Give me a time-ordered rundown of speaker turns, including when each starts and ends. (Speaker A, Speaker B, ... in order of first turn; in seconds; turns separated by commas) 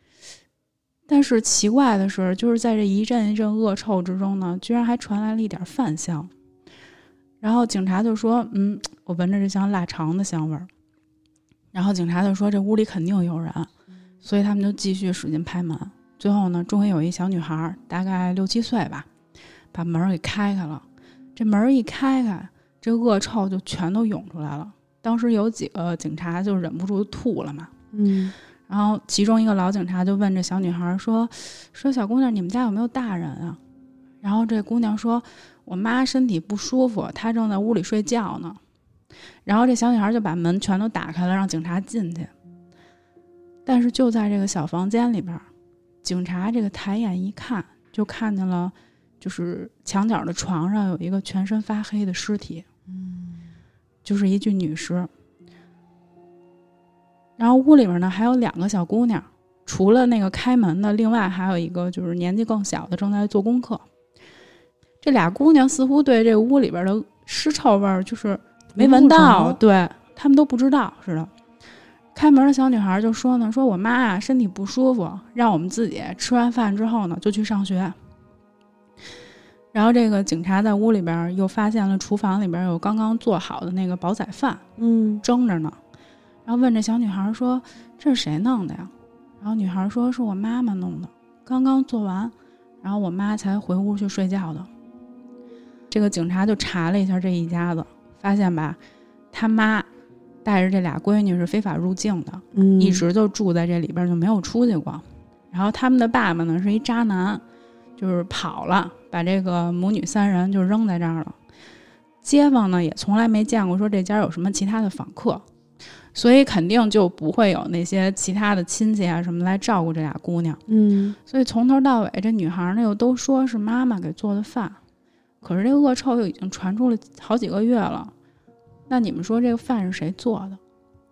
Speaker A: 1.1-6.3, Speaker A: 7.4-10.7, Speaker A: 11.7-13.7, Speaker A: 14.2-19.1, Speaker A: 19.7-20.8, Speaker A: 21.4-27.7, Speaker B: 27.9-28.3, Speaker A: 28.7-33.6, Speaker A: 34.2-38.6, Speaker A: 39.5-42.3, Speaker A: 43.7-45.5, Speaker A: 46.0-52.7, Speaker A: 54.0-55.1, Speaker A: 57.4-63.9, Speaker A: 65.0-71.3, Speaker B: 68.8-69.6, Speaker A: 72.1-78.0, Speaker A: 79.7-84.6, Speaker B: 84.8-85.2, Speaker A: 85.2-85.8, Speaker A: 86.5-94.7, Speaker A: 95.9-98.8, Speaker A: 99.3-99.9, Speaker A: 100.4-107.4, Speaker B: 102.5-103.0, Speaker A: 108.0-111.4, Speaker A: 112.2-115.5, Speaker A: 116.1-120.6, Speaker B: 120.7-121.2, Speaker A: 121.3-124.8, Speaker A: 125.4-128.1, Speaker A: 128.9-130.6